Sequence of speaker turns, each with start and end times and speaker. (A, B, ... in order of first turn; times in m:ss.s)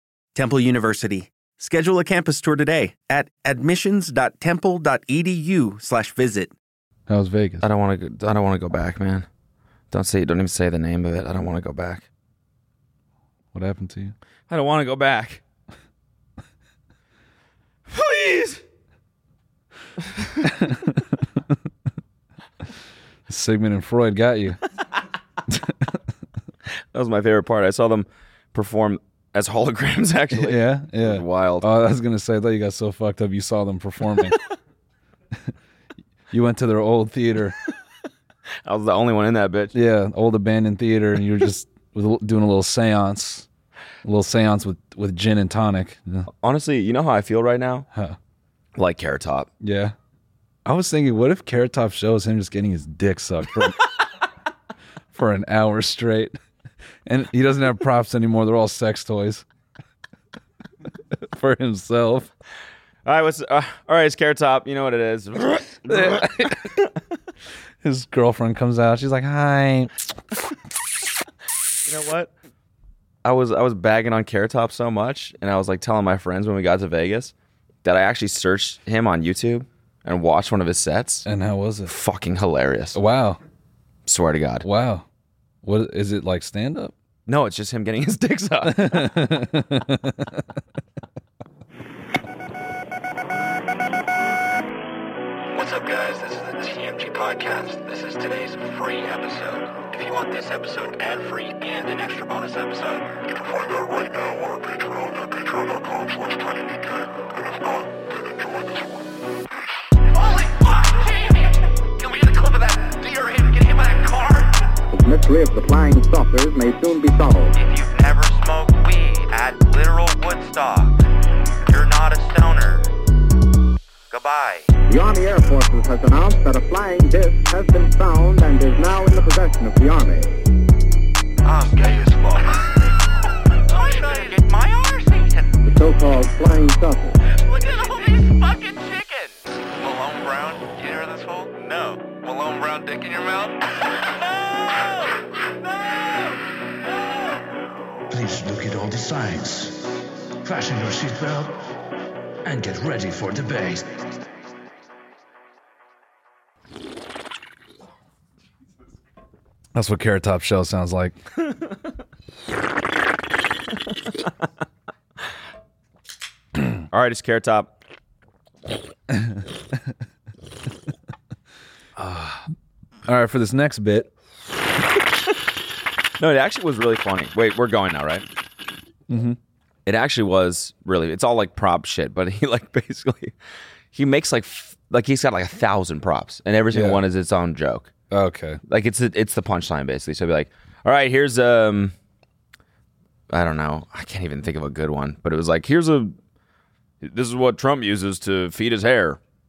0:00.3-0:06.5 A
0:07.1-0:07.6 B
0:07.6-0:09.2 C
0:09.9-0:12.1 C
0:13.5-0:14.1 B
0:14.5-0:15.4 C
0:17.9-0:18.6 C
0:20.4-0:21.2 B
0:23.3-0:24.6 B
0:25.5-0:26.0 B
0:26.9-0:31.7 C
0:30.3-0:34.4 B
0:36.3-0:37.6 B
0:38.6-0:39.7 C
0:39.7-0:43.5 B
0:44.0-0:46.3 B
0:46.4-0:47.8 C
0:48.8-0:49.5 C
0:49.6-0:49.9 B
0:50.6-0:53.8 B
0:55.1-0:56.3 B
0:57.0-0:59.4 B
1:01.1-1:02.3 B
1:03.0-1:06.9 C
1:05.9-1:06.7 B
1:07.8-1:10.2 B
1:11.8-1:12.3 C
1:13.2-1:17.3 C
1:17.8-1:21.2 C
1:21.2-1:21.9 B
1:21.8-1:23.0 C
1:22.9-1:23.4 B
1:24.0-1:24.6 C
1:24.6-1:25.0 B
1:25.6-1:26.9 B
1:27.3-1:29.2 C
1:28.6-1:30.5 B
1:35.6-1:43.0 D
1:50.1-1:54.5 D
1:54.9-1:57.5 E
1:57.5-2:02.9 D
2:04.1-2:04.7 D
2:04.9-2:10.3 E
2:11.4-2:12.6 D
2:13.7-2:15.6 D
2:15.6-2:17.2 E
2:17.4-2:23.6 D
2:28.1-2:29.9 F
2:30.4-2:31.6 F
2:32.4-2:33.9 F
2:39.7-2:41.2 B
2:46.9-2:47.8 C
2:49.1-2:49.4 B
2:52.0-2:52.4 C
2:53.0-2:54.1 B
2:56.2-2:58.2 C
2:59.1-2:59.4 B
2:59.8-3:03.3 C
3:03.9-3:07.9 C
3:06.7-3:07.0 B
3:08.1-3:08.6 B
3:08.7-3:11.9 C
3:13.3-3:16.2 C
3:17.0-3:19.2 C